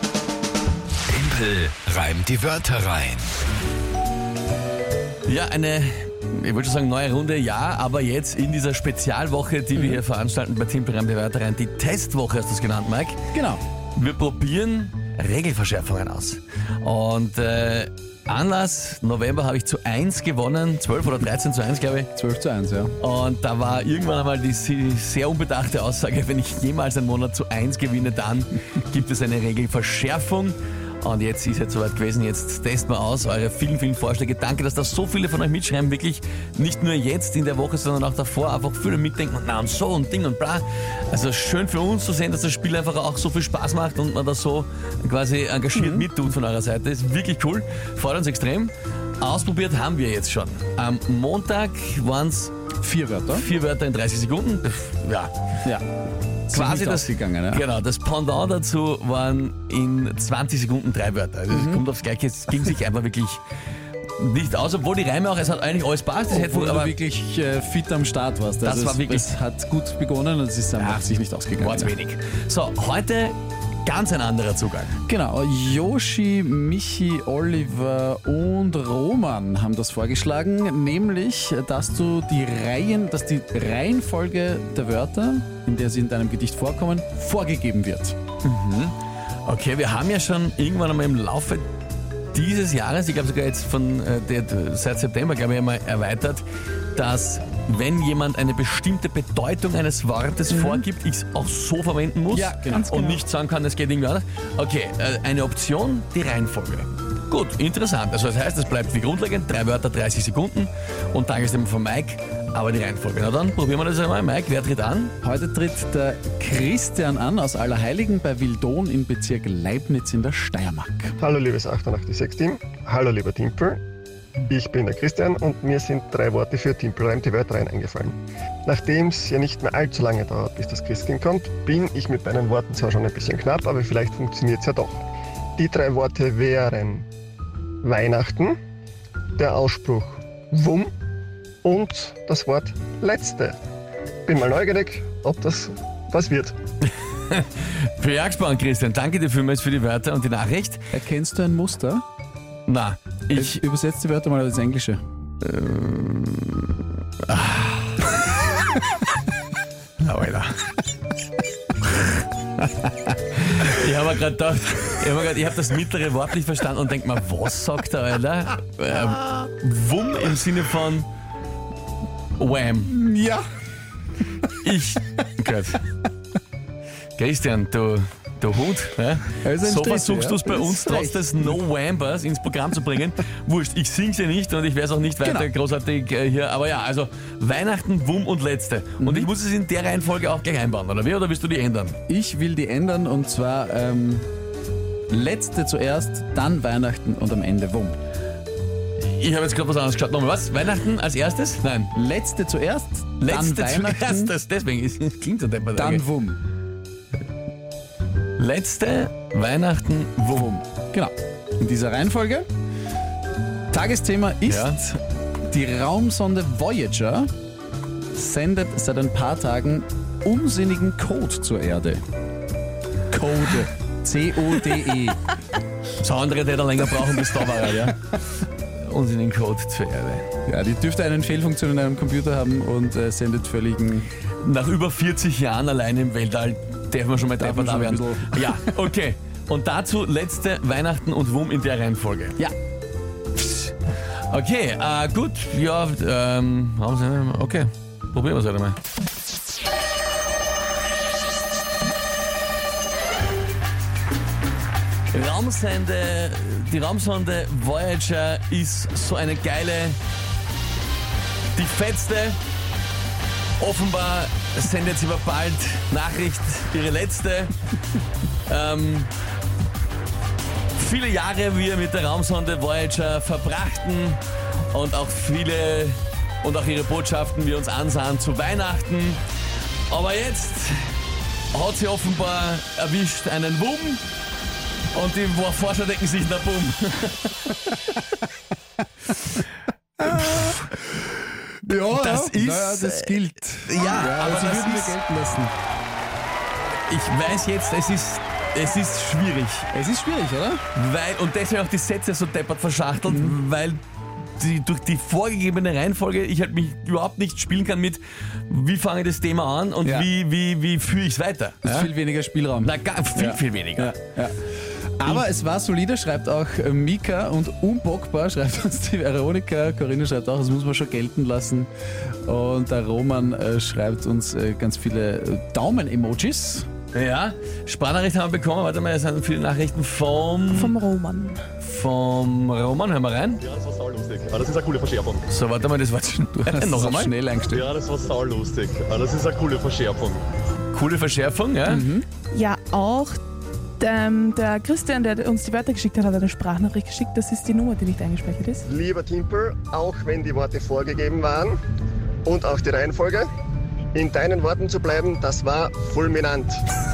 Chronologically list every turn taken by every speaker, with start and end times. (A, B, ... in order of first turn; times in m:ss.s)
0:01.1-0:03.2 A
0:05.2-0:13.2 B
0:09.7-0:10.0 C
0:13.3-0:13.6 C
0:14.0-0:22.1 B
0:22.1-0:22.9 C
0:23.0-0:52.5 B
0:45.7-0:46.1 C
0:52.8-0:53.5 C
0:53.3-0:55.3 B
0:56.5-0:57.6 C
0:56.5-1:03.4 B
1:01.5-1:01.8 C
1:04.2-1:06.9 B
1:06.3-1:11.9 C
1:08.6-1:09.3 B
1:11.6-1:15.0 B
1:15.0-1:28.2 C
1:28.4-1:28.9 B
1:29.4-1:31.6 B
1:32.3-1:36.4 B
1:36.9-1:55.1 B
1:40.5-1:40.8 C
1:42.3-1:43.1 C
1:42.8-1:43.2 D
1:55.2-2:01.2 C
2:01.2-2:03.8 E
2:04.4-2:15.0 E
2:15.6-2:17.0 E
2:17.8-2:18.6 E
2:19.4-2:20.9 E
2:21.6-2:23.6 E
2:24.2-2:26.5 E
2:27.3-2:30.8 B
2:30.9-2:32.0 C
2:32.7-2:33.6 B
2:33.3-2:35.0 C
2:35.4-2:36.7 B
2:37.3-2:38.2 B
2:40.0-2:40.5 B
2:43.3-2:51.1 B
2:52.4-2:52.9 B
2:52.9-2:53.6 C
2:54.6-2:55.8 B
2:57.2-3:12.0 B
2:59.4-3:01.6 C
3:05.2-3:05.5 C
3:09.0-3:09.3 C
3:12.1-3:14.3 C
3:15.1-3:18.0 C
3:19.2-3:21.9 B
3:21.9-3:24.3 C
3:23.2-3:26.0 B
3:25.7-3:26.4 C
3:28.4-3:30.5 B
3:30.3-3:32.5 C
3:33.7-3:37.3 C
3:34.5-3:34.8 B
3:38.1-3:42.0 C
3:43.1-3:45.2 C
3:46.0-3:48.0 B
3:48.8-3:50.3 B
3:50.4-3:54.1 C
3:54.4-4:02.4 B
3:57.4-3:58.8 C
4:03.3-4:03.7 B
4:04.3-4:08.8 B
4:15.1-4:20.0 B
4:21.6-4:22.4 B
4:23.6-4:27.5 B
4:28.5-4:29.1 B
4:30.7-4:39.2 B
4:39.9-4:40.9 B
4:41.5-4:44.0 B
4:44.9-4:47.5 B
4:50.0-4:50.8 C
4:51.6-4:55.5 C
4:51.9-4:53.1 B
4:53.6-4:54.9 B
4:56.9-4:59.7 B
4:59.7-5:00.6 C
5:00.7-5:03.8 B
5:03.0-5:03.4 C
5:04.4-5:11.9 B
5:09.8-5:10.1 C
5:11.6-5:26.7 C
5:12.6-5:14.0 B
5:26.9-5:30.7 B
5:30.5-5:31.4 D
5:31.6-5:37.1 B
5:33.4-5:35.2 F
5:36.3-5:37.6 C
5:37.5-5:40.2 F
5:37.6-5:38.2 B
5:38.9-5:39.8 B
5:40.7-5:41.8 B
5:41.7-5:42.1 C
5:42.3-5:43.2 D
5:43.8-5:48.6 D
5:48.6-5:51.6 E
5:52.2-5:53.3 E
5:53.9-5:56.6 E